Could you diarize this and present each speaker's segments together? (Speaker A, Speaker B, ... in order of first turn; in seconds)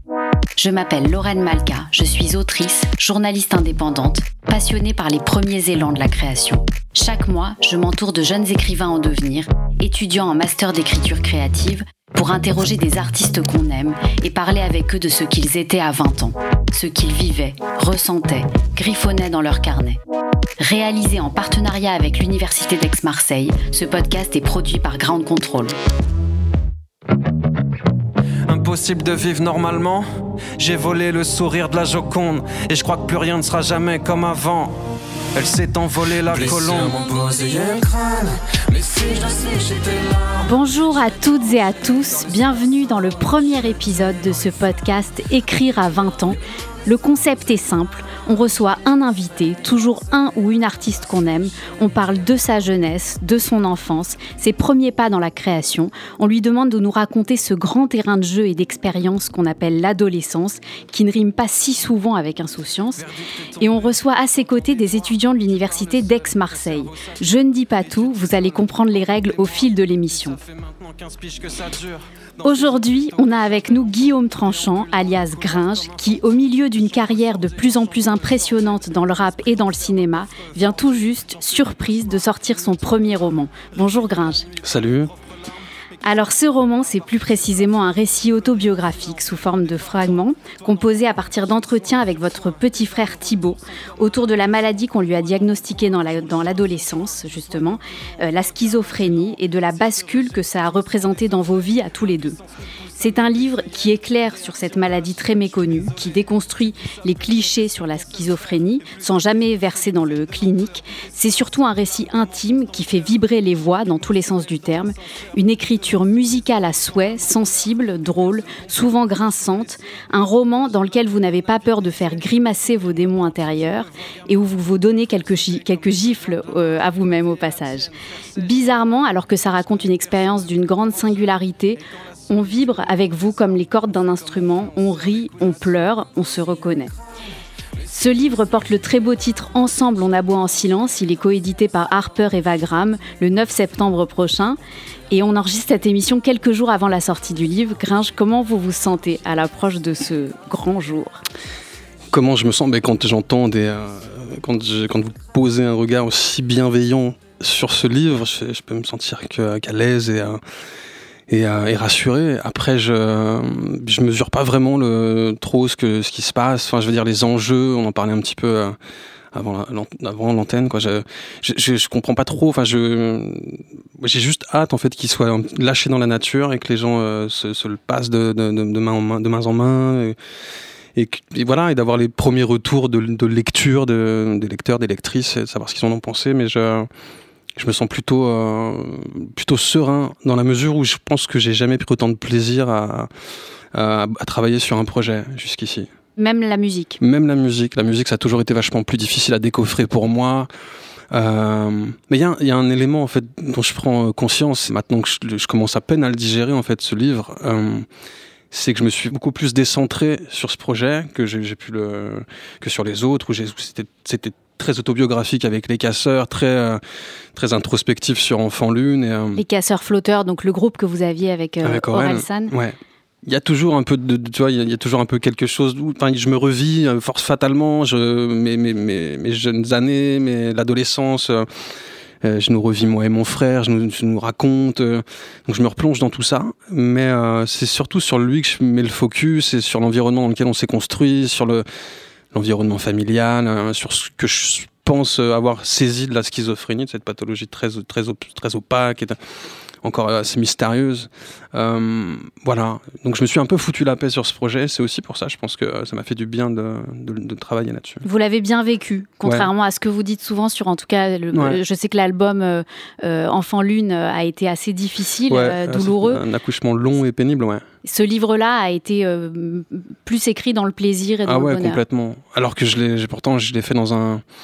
Speaker A: 0.6-20.0, 20.6-25.8, 40.4-63.1, 63.6-70.4, 72.4-84.5, 86.0-102.4, 103.0-136.9, 137.9-144.6, 145.1-151.2, 196.2-197.0, 219.4-222.5, 258.0-266.2, 267.8-271.8
Speaker B: 28.5-34.8, 35.3-40.4, 71.0-72.0
Speaker C: 36.3-37.0, 63.0-70.8, 72.4-76.4, 76.9-79.1, 84.6-85.1, 152.1-160.4, 161.3-168.8, 169.3-180.2, 180.9-186.9, 187.6-193.1, 193.7-195.9, 197.0-200.5, 201.1-207.9, 208.5-216.8, 217.3-219.4, 221.6-241.7, 242.3-258.0, 259.2-259.5, 261.3-261.6, 265.3-267.7, 271.2-274.2